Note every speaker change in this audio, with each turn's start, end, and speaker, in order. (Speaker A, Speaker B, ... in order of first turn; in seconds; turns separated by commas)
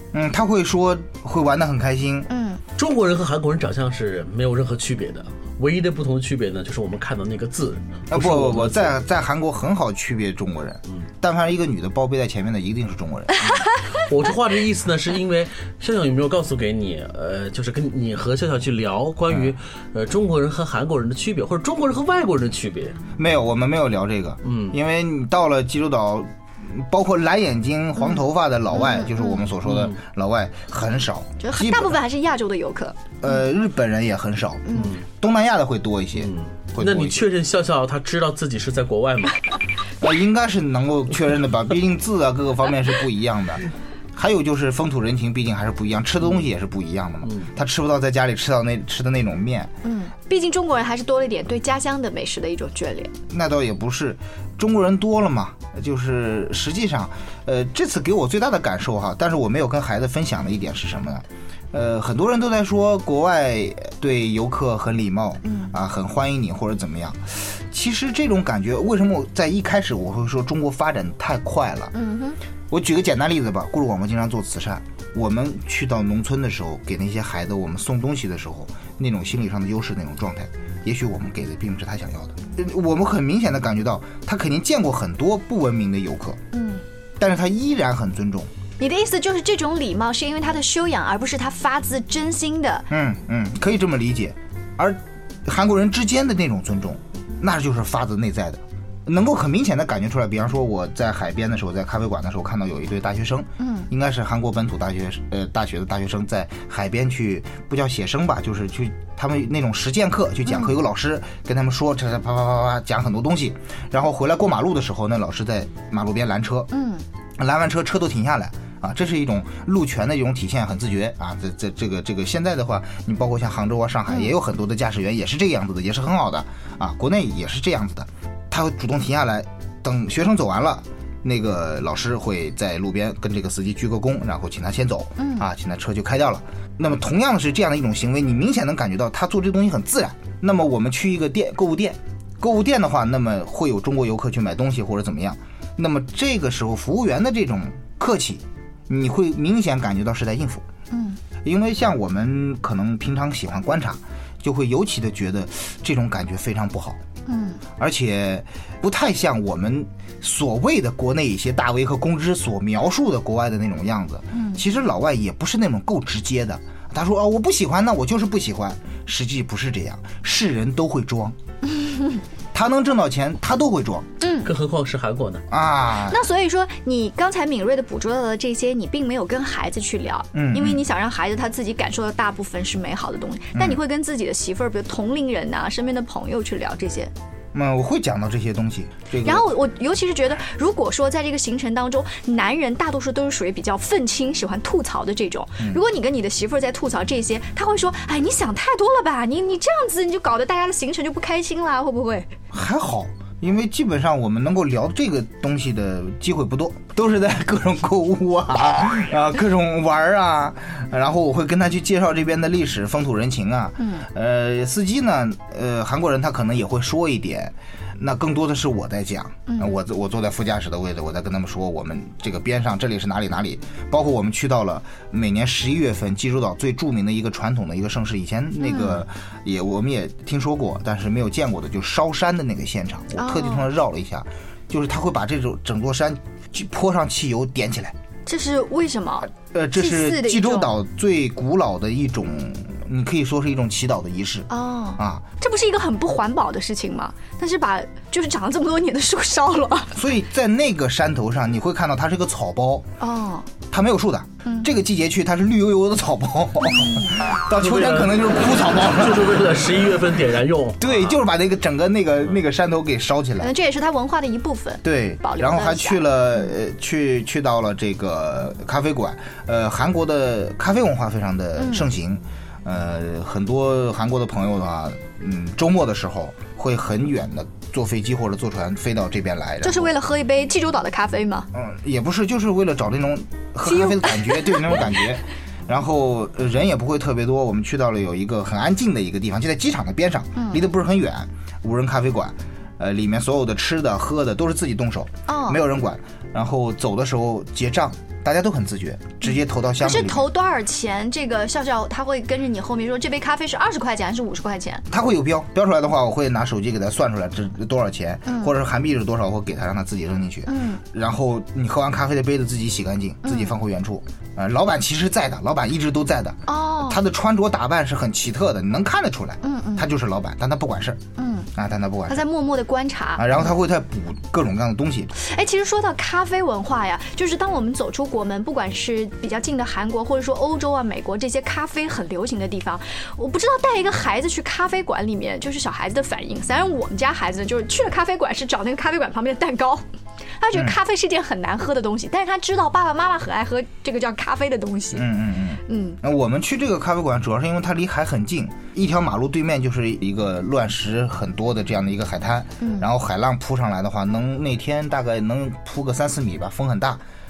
Speaker A: 0.1-2.3, Speaker B: 2.3-2.6, Speaker C: 2.8-8.9, Speaker A: 8.1-13.5, Speaker C: 14.1-23.0, Speaker A: 23.2-32.0, Speaker C: 24.4-24.8, Speaker B: 28.7-29.4, Speaker C: 29.6-30.0, Speaker B: 31.4-33.4, Speaker A: 33.2-37.2, Speaker B: 34.7-35.0, Speaker C: 34.7-35.0, Speaker C: 36.1-39.4, Speaker A: 40.0-43.6, Speaker A: 44.1-49.7, Speaker B: 49.8-53.1, Speaker A: 53.3-71.9, Speaker B: 65.4-65.7, Speaker B: 71.9-72.4, Speaker A: 72.7-86.4, Speaker B: 86.5-86.8, Speaker A: 87.2-88.5, Speaker B: 88.8-92.9, Speaker A: 92.9-116.7, Speaker B: 103.6-103.9, Speaker B: 110.5-110.7, Speaker B: 116.7-117.0, Speaker A: 117.4-150.6, Speaker B: 124.1-124.3, Speaker B: 135.2-135.5, Speaker B: 150.9-151.2, Speaker A: 151.4-157.0, Speaker B: 157.2-157.6, Speaker A: 157.8-171.3, Speaker B: 164.3-164.6, Speaker B: 171.6-172.2, Speaker A: 172.5-174.1, Speaker B: 174.2-174.5, Speaker C: 174.4-175.4, Speaker A: 175.5-176.2, Speaker B: 176.1-187.1, Speaker A: 180.3-180.8, Speaker A: 183.5-183.8, Speaker A: 187.5-189.5, Speaker B: 189.2-202.3, Speaker A: 202.5-237.9, Speaker B: 213.8-214.0, Speaker B: 219.5-219.7, Speaker B: 228.6-229.0, Speaker B: 233.2-233.7, Speaker B: 238.2-240.7, Speaker A: 239.3-245.2, Speaker B: 244.5-249.9, Speaker A: 249.9-252.9, Speaker B: 253.0-253.5, Speaker A: 253.7-259.3, Speaker B: 256.6-257.1, Speaker C: 257.6-260.9, Speaker A: 260.8-263.5, Speaker B: 263.4-266.5, Speaker A: 264.8-279.9, Speaker B: 271.6-271.9, Speaker B: 279.6-281.5, Speaker A: 281.5-300.3, Speaker B: 283.7-284.9, Speaker B: 290.4-290.6, Speaker B: 295.3-295.6, Speaker B: 299.2-304.8, Speaker A: 304.9-321.0, Speaker B: 308.3-308.5, Speaker B: 310.5-310.8, Speaker B: 313.2-313.5, Speaker B: 316.5-317.0, Speaker B: 319.4-319.9, Speaker B: 321.2-321.5, Speaker A: 321.5-322.3, Speaker B: 322.1-323.5, Speaker A: 323.1-325.1, Speaker B: 325.2-339.8, Speaker B: 340.4-345.1, Speaker A: 344.9-357.0, Speaker B: 345.7-346.0, Speaker B: 352.6-352.9